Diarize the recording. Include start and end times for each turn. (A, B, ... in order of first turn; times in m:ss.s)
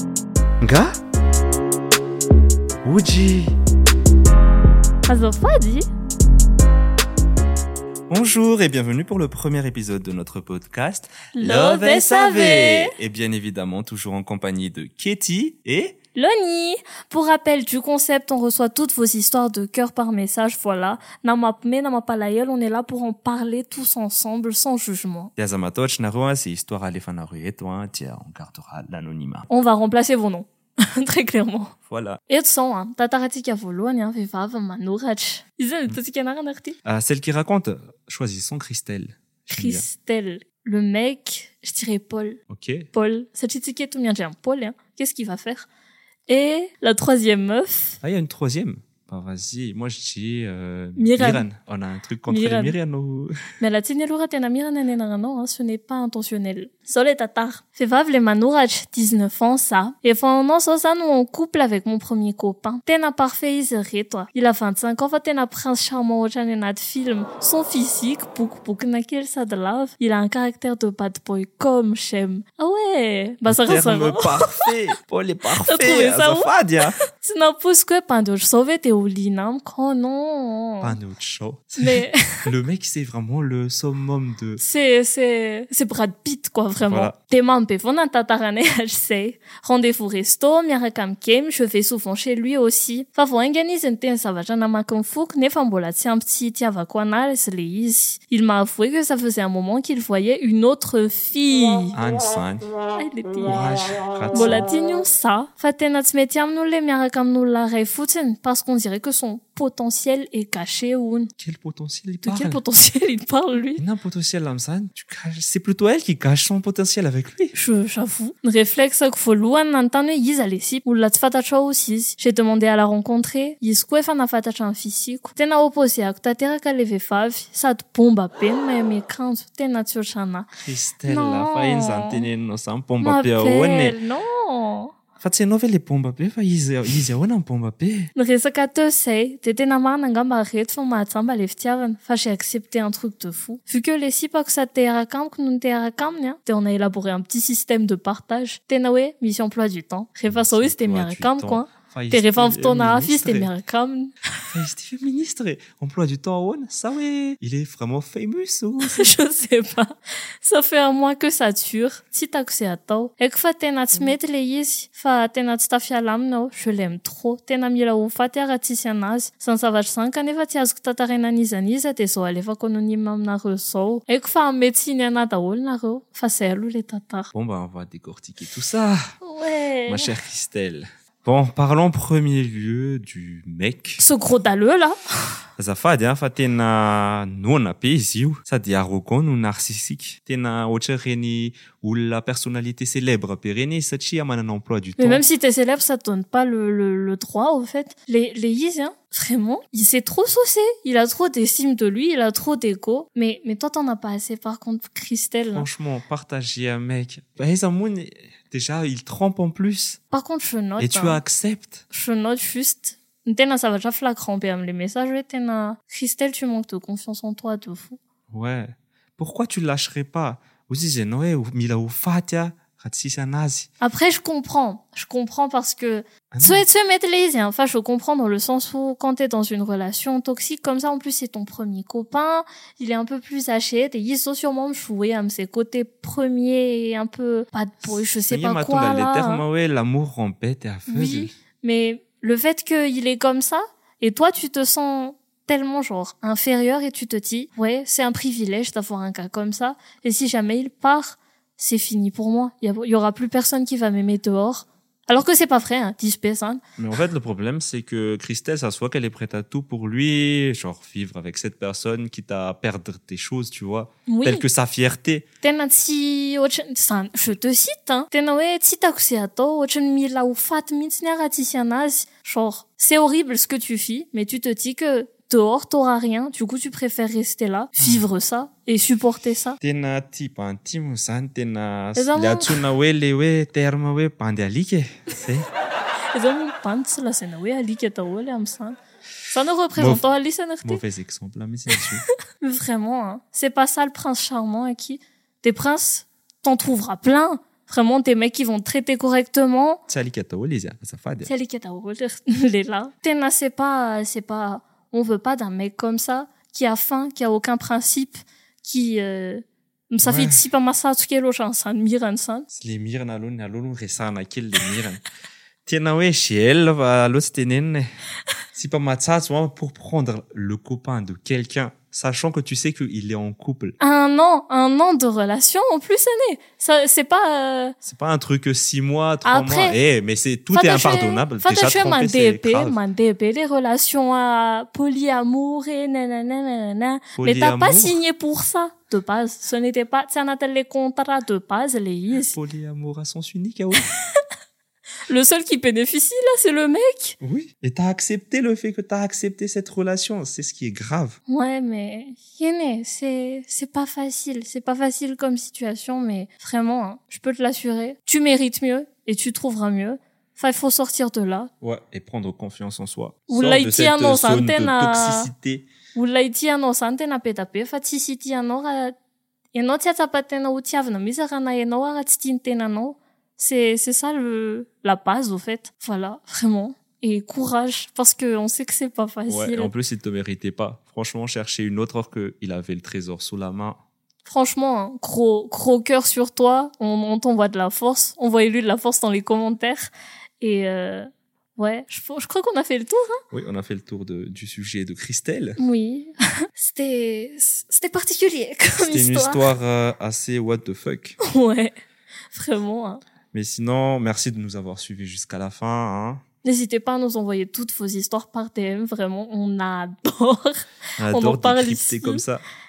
0:00.6-0:00.9 A
0:02.8-0:03.6 A
0:05.0-0:05.8 B
0:08.1-0:15.9 A
0:11.4-0:13.0 B
0:16.1-0:25.3 B
0:25.4-0:29.5 A
0:29.5-0:31.7 B
0:31.9-0:32.2 A
0:32.3-0:36.8 B
0:36.8-0:39.8 A
0:39.5-0:42.4 B
0:42.5-0:42.9 A
0:42.9-0:45.7 B
0:46.3-0:48.0 B
0:48.0-0:53.4 A
0:51.0-0:51.4 B
0:52.3-0:52.7 B
0:53.6-1:14.7 B
1:13.4-1:17.0 A
1:15.6-1:16.5 B
1:17.1-1:21.0 B
1:20.8-1:24.6 A
1:21.8-1:22.4 B
1:24.6-1:42.0 B
1:26.8-1:27.1 A
1:41.9-1:42.7 A
1:42.9-1:51.3 B
1:43.4-1:44.6 A
1:51.4-1:52.6 A
1:52.2-1:53.8 B
1:53.8-1:57.5 A
1:57.5-2:10.5 B
2:10.6-2:14.0 A
2:11.1-2:12.3 B
2:13.0-2:14.9 B
2:15.2-2:18.1 A
2:18.2-2:34.2 B
2:30.3-2:33.5 A
2:34.5-2:39.1 A
2:38.8-2:57.3 B
2:57.3-2:59.1 A
2:59.2-3:00.1 B
2:59.9-3:04.0 A
3:04.0-3:05.4 B
3:05.6-3:15.2 A
3:15.0-3:25.7 B
3:25.5-3:30.0 A
3:30.1-3:31.2 B
3:30.8-3:31.8 A
3:31.9-3:38.0 B
3:38.3-3:43.7 A
3:43.8-3:59.4 B
3:46.3-3:46.6 A
3:57.8-4:01.3 A
4:00.9-4:16.6 B
4:16.8-4:25.2 A
4:24.1-4:24.4 B
4:25.4-4:39.6 B
4:37.8-4:38.1 A
4:39.6-4:45.5 A
4:42.0-4:42.6 B
4:46.1-4:48.8 B
4:49.3-4:50.8 B
4:49.7-4:50.0 A
4:50.6-4:52.0 A
4:52.4-4:59.8 B
4:59.9-5:01.3 A
5:01.2-5:12.5 B
5:10.0-5:10.4 A
5:12.5-5:15.0 A
5:15.6-5:17.9 A
5:18.5-5:23.8 A
5:23.8-5:27.7 B
5:27.8-5:32.8 A
5:29.2-5:29.8 B
5:30.5-5:42.4 B
5:37.2-5:38.0 A
5:42.2-5:43.9 A
5:43.8-5:44.2 B
5:45.1-5:47.2 B
5:47.2-5:51.2 A
5:51.3-6:01.5 B
6:01.6-6:05.6 A
6:03.3-6:05.3 B
6:05.9-6:08.9 B
6:09.5-6:19.7 B
6:19.3-6:23.8 A
6:24.2-6:33.2 B
6:33.3-6:35.6 A
6:35.6-6:39.5 B
6:38.8-6:41.2 A
6:41.2-6:41.8 B
6:42.3-6:43.0 B
6:43.3-6:46.2 A
6:46.4-6:52.2 B
6:51.0-6:52.4 A